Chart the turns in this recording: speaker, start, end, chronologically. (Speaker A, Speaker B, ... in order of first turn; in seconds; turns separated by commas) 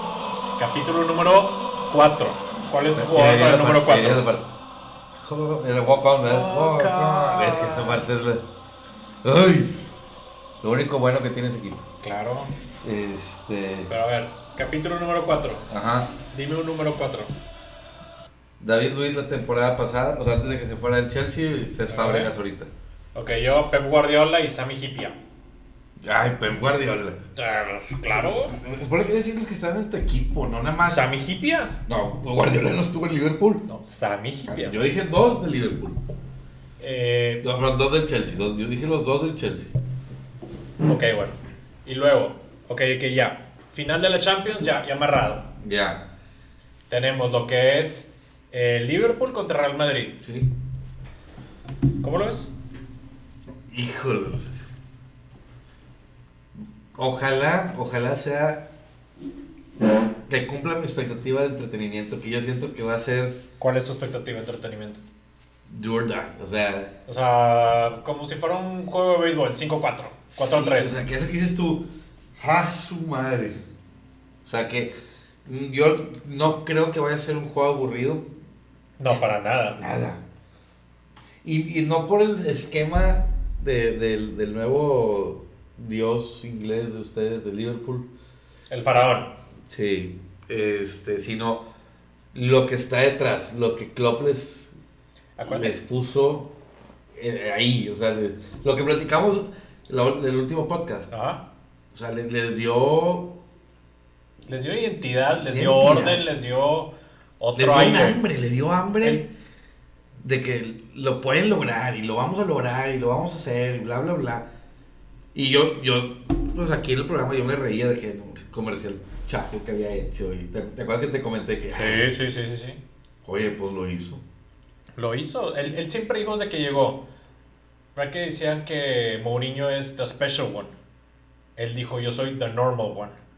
Speaker A: 0.6-4.2, Speaker B: 2.9-4.5, Speaker B: 5.2-8.4, Speaker A: 6.2-8.1, Speaker B: 9.2-9.8, Speaker B: 10.6-11.8, Speaker A: 12.0-12.5, Speaker B: 12.8-13.9, Speaker A: 13.9-15.7, Speaker B: 15.7-16.1, Speaker A: 16.3-17.3, Speaker B: 18.6-22.7, Speaker A: 21.9-22.3, Speaker A: 23.1-25.1, Speaker B: 26.0-27.2, Speaker A: 27.4-28.6, Speaker B: 28.5-31.1, Speaker A: 30.8-31.7, Speaker B: 31.9-33.6, Speaker A: 33.7-34.8, Speaker B: 34.5-36.0, Speaker A: 36.8-37.4, Speaker B: 37.4-39.7, Speaker A: 40.8-45.5, Speaker B: 45.6-46.0, Speaker A: 46.9-50.2, Speaker B: 50.2-50.5, Speaker A: 52.0-52.5, Speaker B: 53.7-54.6, Speaker B: 56.9-58.7, Speaker B: 60.3-63.4, Speaker A: 63.6-65.0, Speaker B: 65.7-66.9, Speaker A: 67.1-71.0, Speaker B: 70.3-71.8, Speaker B: 72.4-73.6, Speaker B: 74.4-74.9, Speaker B: 75.4-78.3, Speaker A: 79.0-79.8, Speaker B: 79.8-80.2, Speaker B: 81.4-88.1, Speaker A: 88.7-89.3, Speaker B: 89.7-91.7, Speaker B: 92.3-94.7, Speaker A: 95.4-95.7, Speaker B: 95.5-96.5, Speaker B: 97.1-101.1, Speaker A: 101.1-101.4, Speaker B: 101.9-103.4, Speaker A: 104.5-108.2, Speaker B: 105.5-106.2, Speaker B: 107.5-109.2, Speaker B: 110.2-114.5, Speaker B: 115.3-122.1, Speaker A: 121.7-122.8, Speaker B: 123.2-124.2, Speaker A: 125.0-127.0, Speaker A: 128.0-130.7, Speaker A: 131.6-133.2